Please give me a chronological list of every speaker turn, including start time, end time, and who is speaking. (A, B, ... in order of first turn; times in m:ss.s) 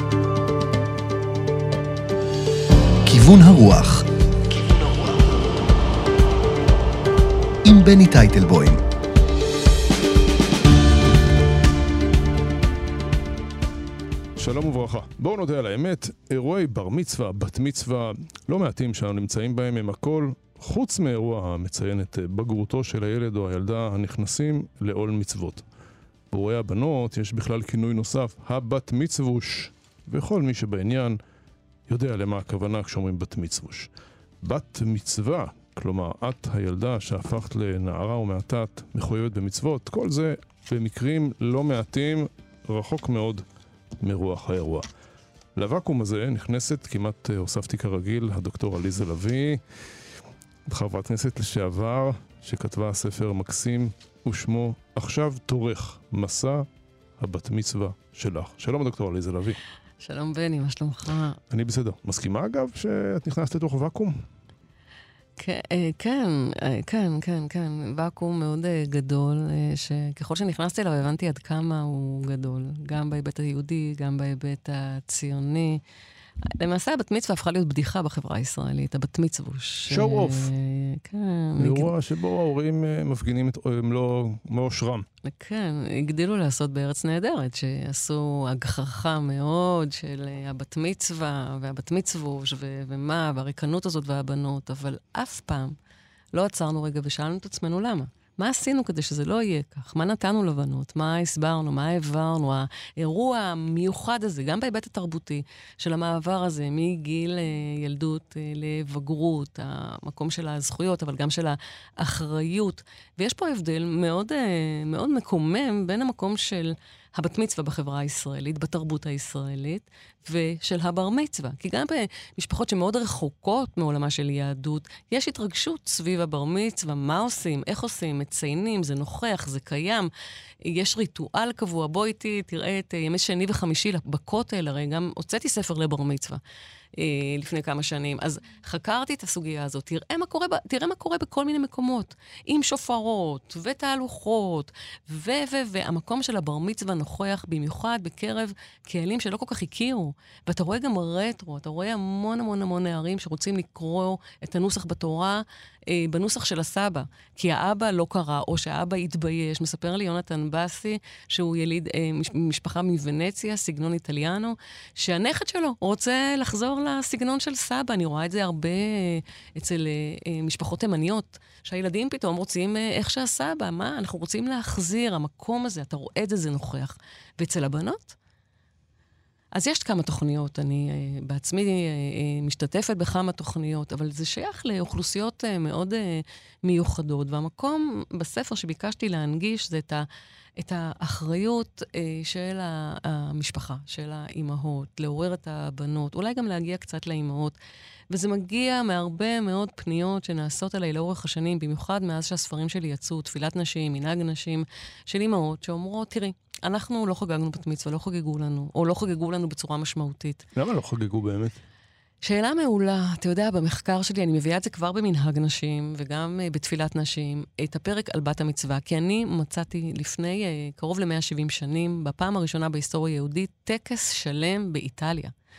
0:03.0-0:05.4 A
0:07.6-0:08.8 A
0:14.4-0:25.6 B
0:26.3-0:31.2 B
0:31.9-0:33.9 B
0:34.4-0:43.4 B
0:44.0-0:44.9 B
0:45.6-0:49.6 B
0:50.7-0:56.7 B
0:57.2-0:59.6 B
1:00.0-1:01.4 C
1:01.5-1:04.2 B
1:05.4-1:15.8 C
1:16.6-1:21.9 C
1:19.9-1:20.5 B
1:21.6-1:25.1 B
1:25.2-1:35.8 C
1:36.4-2:10.1 C
2:10.6-2:16.4 C
2:17.0-2:58.2 C
2:59.6-3:10.1 C
3:10.6-3:17.6 C
3:18.1-3:30.4 C
3:30.6-3:31.6 B
3:32.2-3:45.3 C